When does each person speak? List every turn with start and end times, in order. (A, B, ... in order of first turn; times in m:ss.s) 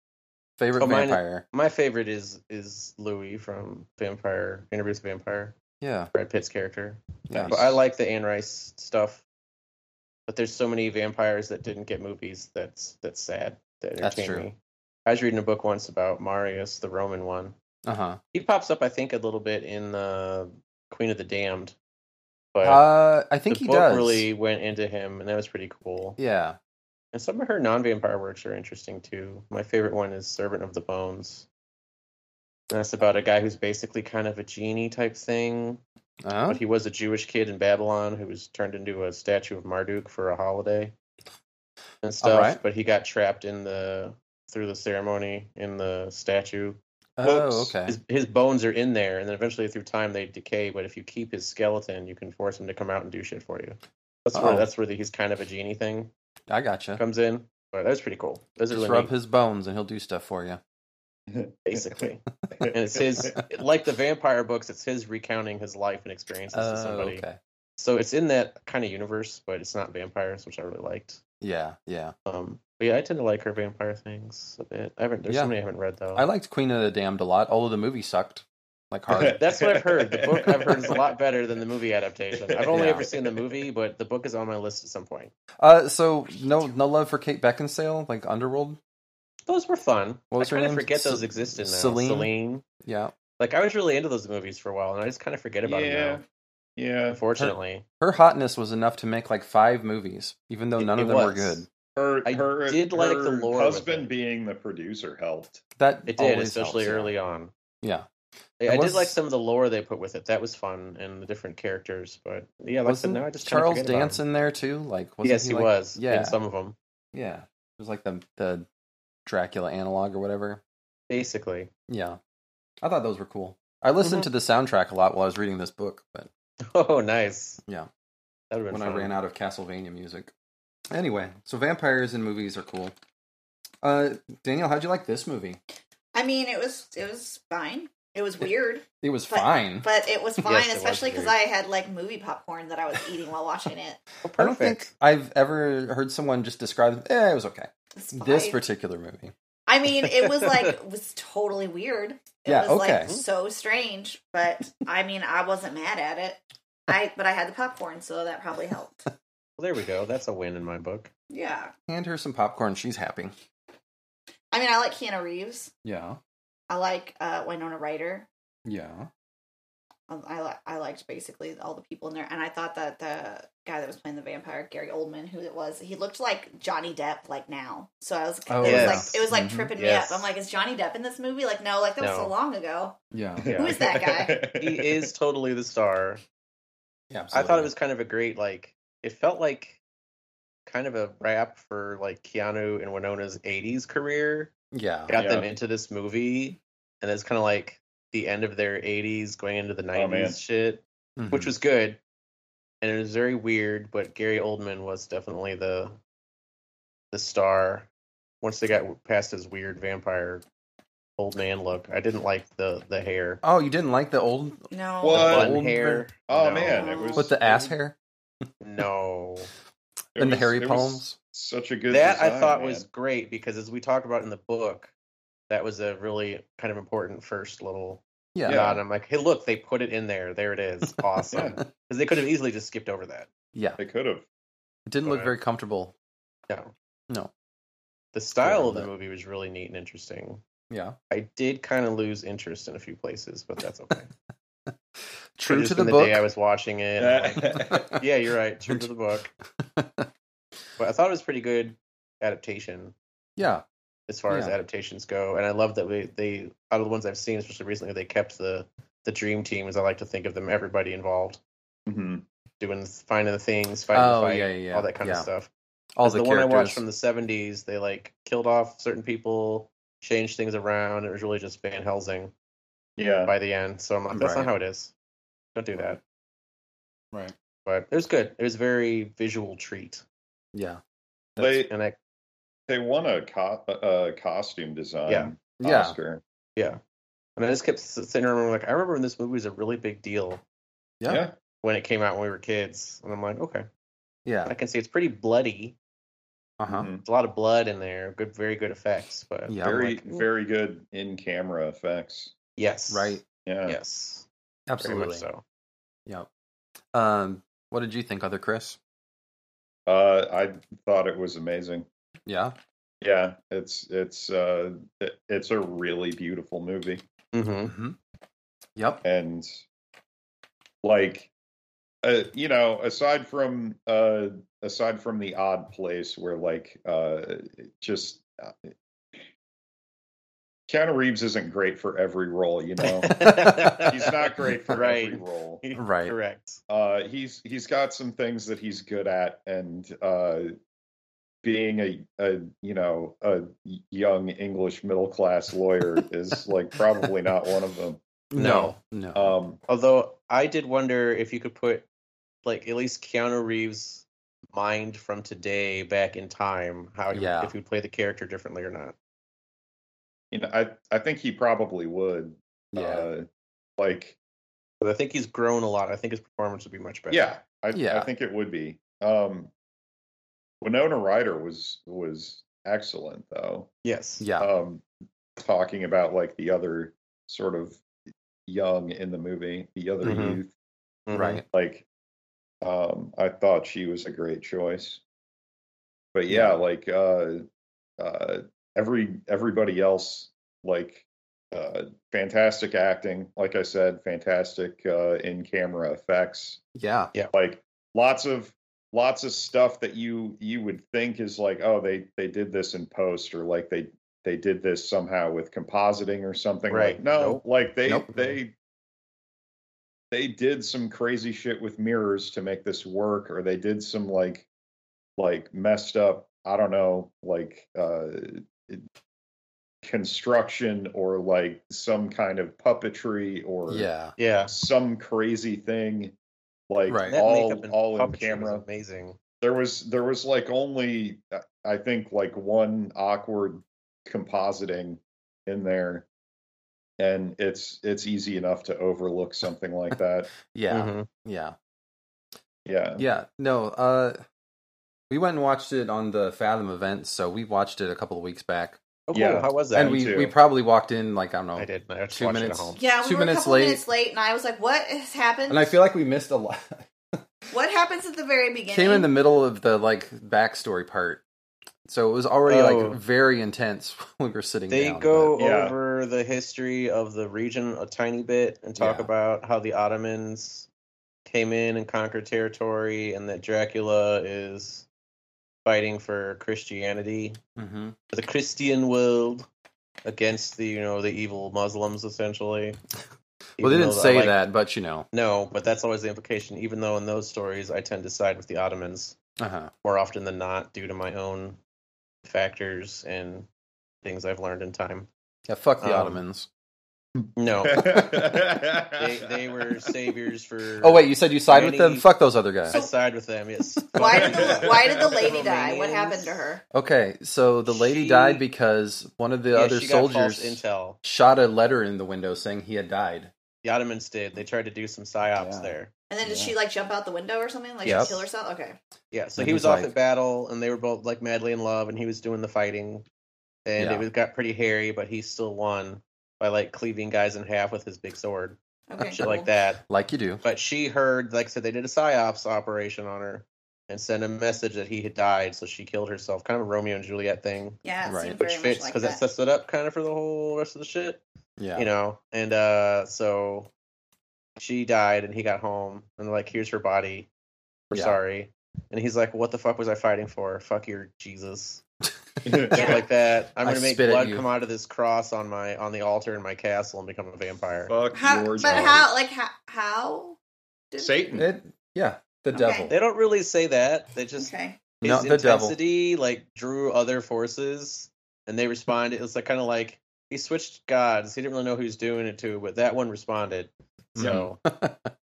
0:00.6-0:01.4 A
0:00.8-0:05.6 B
0:05.8-0:06.1 A
0:06.1-0:09.2 B
0:07.3-0:07.7 A
0:07.3-0:07.8 C
0:10.3-0:17.6 B
0:14.0-0:14.5 A
0:17.8-0:18.2 A
0:18.3-0:21.8 B
0:22.5-0:22.8 B
0:22.6-0:24.3 A
0:23.5-0:26.2 B
0:26.2-0:26.6 A
0:27.1-0:31.5 B
0:32.7-0:35.8 B
0:36.2-0:36.6 A
0:36.5-0:40.9 B
0:42.0-0:46.8 B
0:42.2-0:42.6 A
0:47.2-0:48.0 A
0:47.3-0:47.7 C
0:47.8-0:56.1 B
0:54.3-0:54.7 A
0:56.5-0:57.0 A
0:57.0-0:59.1 B
0:58.7-1:00.6 A
1:01.3-1:02.0 C
1:01.7-1:07.2 B
1:02.6-1:03.3 C
1:06.5-1:07.4 A
1:07.8-1:11.2 B
1:11.4-1:12.2 A
1:12.3-1:16.2 B
1:15.3-1:15.5 A
1:16.2-1:19.4 A
1:19.1-1:21.0 C
1:19.4-1:25.3 B
1:22.5-1:23.1 C
1:22.7-1:23.1 A
1:25.6-1:28.8 A
1:29.5-1:32.6 B
1:30.3-1:32.3 A
1:32.8-1:33.1 A
1:33.4-1:36.2 B
1:35.6-1:36.2 C
1:36.8-1:37.2 C
1:37.1-1:37.8 B
1:37.4-1:41.7 A
1:40.8-1:41.6 B
1:42.0-1:45.6 C
1:42.2-1:44.1 B
1:45.8-1:47.1 A
1:46.1-1:47.5 B
1:48.6-1:54.2 B
1:48.6-1:49.1 A
1:52.9-1:56.4 A
1:55.2-1:56.8 B
1:57.1-1:58.7 A
1:59.3-2:00.6 A
2:01.1-2:01.7 B
2:01.9-2:02.2 A
2:02.8-2:06.3 A
2:06.7-2:07.6 B
2:08.5-2:09.1 B
2:08.7-2:10.3 A
2:10.9-2:12.9 A
2:13.8-2:15.6 A
2:16.1-2:24.0 D
2:19.0-2:19.9 A
2:20.4-2:21.4 B
2:24.2-2:24.9 B
2:24.4-2:29.3 A
2:28.0-2:28.6 D
2:29.7-2:39.0 D
2:32.5-2:33.1 A
2:39.6-2:41.1 B
2:41.3-2:41.7 D
2:41.9-2:43.3 A
2:44.5-2:45.7 D
2:45.8-2:46.2 A
2:46.7-2:48.3 D
2:48.7-2:49.1 A
2:50.1-3:03.0 D
2:58.5-2:59.7 A
2:58.6-3:00.3 B
3:02.0-3:02.3 B
3:03.1-3:03.5 A
3:03.4-3:05.1 C
3:03.4-3:03.8 B
3:03.6-3:04.4 D
3:04.6-3:06.2 B
3:07.1-3:07.7 A
3:07.3-3:09.8 B
3:10.7-3:14.5 B
3:14.7-3:15.2 A
3:15.1-3:22.0 B
3:15.2-3:15.5 C
3:19.9-3:20.4 C
3:21.2-3:21.5 A
3:22.8-3:26.0 B
3:27.1-3:27.9 B
3:28.4-3:30.4 B
3:31.2-3:33.4 B
3:33.4-3:36.1 A
3:34.7-3:35.3 D
3:35.0-3:35.6 C
3:35.2-3:37.6 B
3:36.3-3:37.4 C
3:36.7-3:37.3 D
3:37.2-3:38.0 A
3:38.6-3:39.5 B
3:40.2-3:42.9 C
3:40.2-3:41.2 A
3:41.9-3:44.9 B
3:45.5-3:53.3 B
3:48.4-3:48.6 A
3:48.5-3:48.8 C
3:51.3-3:51.6 C
3:53.5-3:53.8 A
3:53.8-3:54.2 C
3:54.9-3:55.9 A
3:55.0-3:55.3 B
3:58.1-4:00.4 B
3:58.4-3:58.9 A
4:00.7-4:01.0 A
4:01.1-4:04.1 B
4:05.4-4:06.2 A
4:05.5-4:09.3 B
4:07.0-4:08.0 C
4:09.6-4:10.1 A
4:10.8-4:13.0 B
4:13.4-4:13.6 A
4:14.1-4:21.4 B
4:14.3-4:14.5 A
4:21.9-4:22.2 C
4:22.6-4:25.5 B
4:23.9-4:25.3 A
4:26.0-4:26.8 A
4:26.0-4:32.3 B
4:33.0-4:33.3 C
4:33.3-4:34.9 B
4:34.1-4:34.5 A
4:35.6-4:36.0 B
4:37.6-4:40.0 B
4:40.5-4:40.8 A
4:41.4-4:41.6 A
4:41.4-4:41.7 C
4:41.7-4:42.0 B
4:42.7-4:46.2 C
4:45.6-4:46.0 A
4:47.4-4:50.4 B
4:51.1-4:51.3 C
4:51.6-4:53.7 B
4:54.2-4:54.5 A
4:54.5-4:55.8 B
4:56.6-4:56.9 A
4:56.7-4:57.0 C
4:57.0-4:59.5 B
4:59.5-5:00.0 A
4:59.6-5:02.3 C
5:02.6-5:04.3 B
5:02.9-5:03.2 A
5:03.5-5:03.8 C
5:04.7-5:05.3 A
5:04.8-5:05.4 B
5:06.9-5:08.8 A
5:09.9-5:11.9 C
5:12.3-5:12.6 A
5:13.0-5:17.0 C
5:17.3-5:17.7 B
5:17.7-5:18.0 A
5:18.8-5:19.0 A
5:19.0-5:19.5 C
5:20.8-5:21.3 C
5:22.0-5:29.2 C
5:30.7-5:35.6 C
5:32.8-5:36.6 B
5:33.1-5:33.8 A
5:35.8-5:36.1 A
5:36.7-5:40.5 C
5:41.4-5:48.0 C
5:48.3-5:49.4 A
5:48.4-5:48.8 B
5:49.1-5:49.6 C
5:49.7-5:51.9 B
5:52.4-5:59.0 B
5:57.1-5:57.5 A
6:00.3-6:03.3 C
6:02.7-6:03.1 A
6:03.8-6:04.2 C
6:04.8-6:07.4 B
6:07.1-6:09.5 C
6:07.7-6:08.1 A
6:10.6-6:13.7 C
6:13.8-6:14.3 B
6:14.2-6:14.5 A
6:14.4-6:14.8 C
6:15.4-6:17.8 C
6:18.5-6:20.5 C
6:20.0-6:20.4 B
6:21.1-6:21.4 B
6:21.1-6:21.4 A
6:21.5-6:21.8 C
6:22.6-6:25.0 C
6:26.1-6:27.4 C
6:26.3-6:26.6 A
6:28.0-6:36.6 C
6:36.8-6:37.1 A
6:37.3-6:48.5 C
6:46.7-6:47.4 B
6:50.1-6:54.5 C
6:55.2-6:58.8 C
6:59.8-7:03.9 C
7:03.7-7:04.2 A
7:04.2-7:04.5 B
7:04.5-7:06.2 C
7:06.7-7:08.6 C
7:06.9-7:07.2 A
7:07.1-7:09.2 B
7:09.4-7:16.1 C
7:17.0-7:20.3 C
7:20.5-7:21.6 A
7:20.7-7:21.1 B
7:22.7-7:23.0 C
7:23.0-7:24.2 A
7:25.1-7:28.8 A
7:29.1-7:30.1 B
7:29.1-7:30.4 C
7:29.7-7:33.8 A
7:31.6-7:32.8 B
7:32.8-7:35.8 D
7:35.5-7:37.2 A
7:37.5-7:39.1 D
7:38.7-7:41.2 A
7:41.9-7:45.4 A
7:42.5-7:43.0 B
7:44.7-7:50.7 B
7:45.4-7:45.8 C
7:48.8-7:49.1 A
7:51.3-7:54.9 B
7:55.6-7:57.4 B
7:57.6-7:58.0 A
7:58.1-7:59.5 B
8:00.0-8:02.8 B
8:03.6-8:04.4 B
8:03.6-8:05.1 A
8:05.1-8:09.2 B
8:09.4-8:09.7 A
8:09.8-8:11.6 B
8:12.2-8:13.5 B
8:14.0-8:15.1 B
8:15.5-8:16.5 A
8:15.8-8:16.2 B
8:17.2-8:19.3 C
8:17.4-8:18.3 B
8:18.9-8:22.1 B
8:20.8-8:22.8 A
8:22.6-8:26.4 B
8:24.0-8:26.6 D
8:24.0-8:25.4 C
8:26.7-8:33.3 A
8:27.7-8:28.4 B
8:29.5-8:31.0 B
8:33.6-8:35.9 B
8:35.4-8:35.7 A
8:36.1-8:38.8 D
8:36.2-8:36.6 A
8:37.8-8:38.2 B
8:37.8-8:38.2 A
8:39.1-8:43.1 B
8:39.4-8:39.9 A
8:43.7-8:48.6 B
8:43.8-8:44.1 A
8:48.9-8:49.5 D
8:49.0-8:50.4 A
8:49.2-8:49.8 B
8:50.4-8:57.8 B
8:57.8-8:59.2 D
8:58.0-8:58.4 A
8:58.4-9:01.2 B
9:01.6-9:01.9 A
9:01.8-9:03.7 B
9:04.6-9:07.3 B
9:07.9-9:11.8 B
9:07.9-9:08.2 A
9:12.4-9:13.0 C
9:12.7-9:17.9 B
9:12.7-9:13.0 D
9:13.6-9:14.4 A
9:17.9-9:19.1 C
9:18.1-9:20.4 D
9:20.9-9:21.3 D
9:21.0-9:21.5 C
9:21.4-9:23.0 A
9:22.5-9:22.9 D
9:22.9-9:34.6 B
9:24.4-9:24.8 D
9:25.0-9:25.8 A
9:34.2-9:35.1 A
9:34.2-9:34.5 C